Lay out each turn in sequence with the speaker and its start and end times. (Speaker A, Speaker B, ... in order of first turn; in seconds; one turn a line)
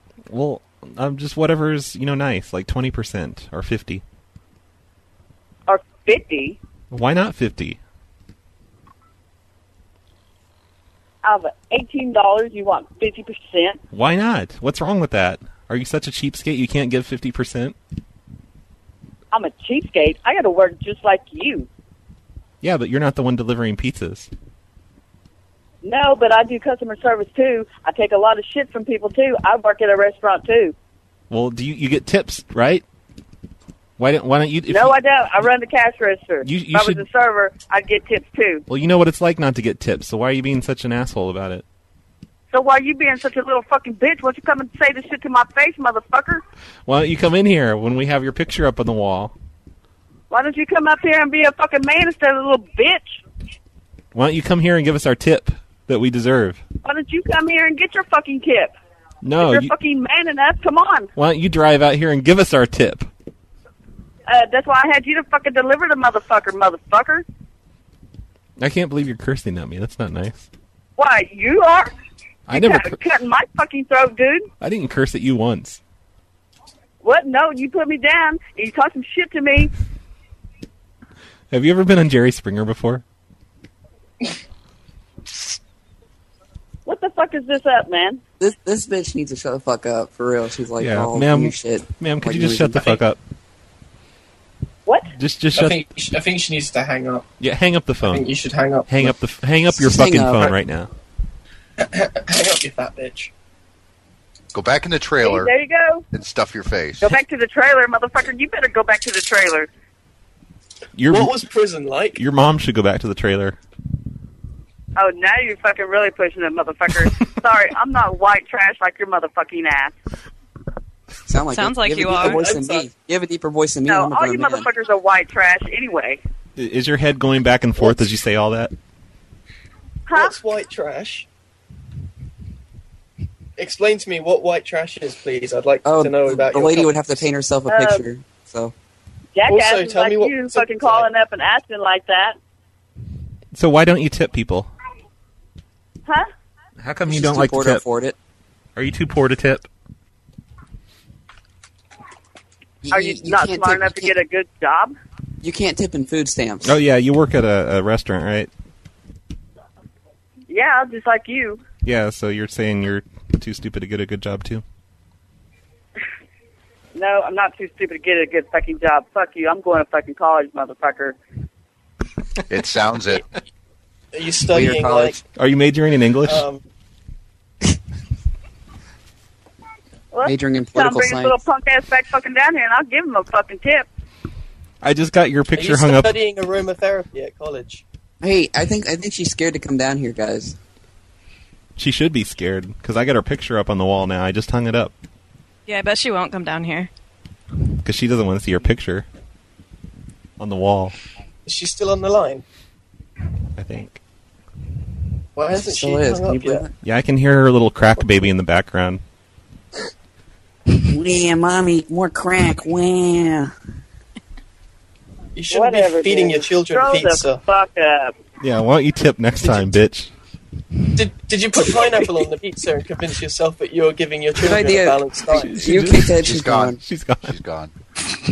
Speaker A: 0.3-4.0
Speaker B: 5.7-6.6
Speaker A: 6.9-7.8
Speaker B: 11.2-13.8
Speaker A: 13.9-17.7
Speaker B: 19.3-21.7
Speaker A: 22.6-24.3
Speaker B: 25.8-30.7
Speaker A: 31.3-32.8
Speaker A: 34.0-34.9
Speaker B: 34.7-38.6
Speaker A: 36.4-37.0
Speaker A: 38.7-41.6
Speaker B: 42.5-46.4
Speaker A: 46.9-49.3
Speaker B: 50.3-53.2
Speaker A: 54.1-56.6
Speaker B: 56.8-58.7
Speaker A: 59.2-59.7
Speaker B: 59.4-61.1
Speaker A: 61.1-63.1
Speaker B: 64.3-67.2
Speaker A: 68.6-70.5
Speaker B: 71.0-71.9
Speaker A: 72.5-73.0
Speaker B: 72.5-74.5
Speaker A: 74.6-75.8
Speaker B: 77.0-79.7
Speaker A: 81.5-83.0
Speaker B: 86.8-88.2
Speaker C: 88.4-93.0
Speaker A: 90.8-93.2
Speaker B: 94.8-95.1
Speaker A: 95.1-95.8
Speaker D: 95.5-97.2
Speaker A: 97.4-98.3
Speaker D: 98.1-99.1
Speaker A: 98.9-100.9
Speaker C: 99.7-100.5
Speaker D: 101.8-103.3
Speaker E: 104.5-105.5
Speaker B: 105.2-106.0
Speaker E: 106.1-107.1
Speaker B: 107.0-109.7
Speaker A: 110.9-111.3
Speaker D: 111.1-112.2
Speaker A: 112.2-113.6
Speaker B: 115.0-119.9
Speaker C: 121.2-124.7
Speaker F: 121.5-122.4
Speaker D: 122.0-122.9
Speaker B: 123.8-126.2
Speaker A: 126.5-128.7
Speaker B: 130.1-130.3
Speaker D: 130.1-131.2
Speaker D: 133.6-137.2
Speaker C: 135.8-138.7
Speaker B: 137.7-138.1
Speaker B: 139.3-142.4
Speaker D: 139.5-141.1
Speaker A: 143.5-144.7
Speaker A: 146.8-147.8
Speaker C: 147.1-148.2
Speaker A: 148.8-149.7
Speaker C: 152.8-154.1
Speaker B: 152.9-154.9
Speaker C: 155.4-156.8
Speaker A: 156.6-158.5
Speaker B: 160.5-161.6
Speaker A: 161.8-164.6
Speaker B: 166.9-171.2
Speaker E: 172.5-173.2
Speaker D: 174.1-175.2
Speaker C: 174.5-175.2
Speaker A: 175.3-176.4
Speaker D: 176.2-176.6
Speaker B: 180.1-183.9
Speaker C: 180.2-181.3
Speaker A: 184.8-186.1
Speaker D: 185.5-187.8
Speaker C: 188.2-190.6
Speaker A: 191.8-194.9
Speaker F: 195.7-196.9
Speaker A: 197.8-199.1
Speaker A: 200.4-201.0
Speaker D: 201.4-202.4
Speaker A: 203.6-204.0
Speaker D: 205.3-206.7
Speaker C: 205.6-206.7
Speaker A: 206.8-209.0
Speaker C: 210.7-213.5
Speaker D: 215.3-217.4
Speaker B: 215.5-218.1
Speaker A: 218.4-220.1
Speaker D: 219.4-219.8
Speaker D: 220.9-225.7
Speaker C: 224.4-226.8
Speaker A: 225.3-226.2
Speaker E: 226.2-226.7
Speaker A: 226.8-227.3
Speaker E: 227.2-227.7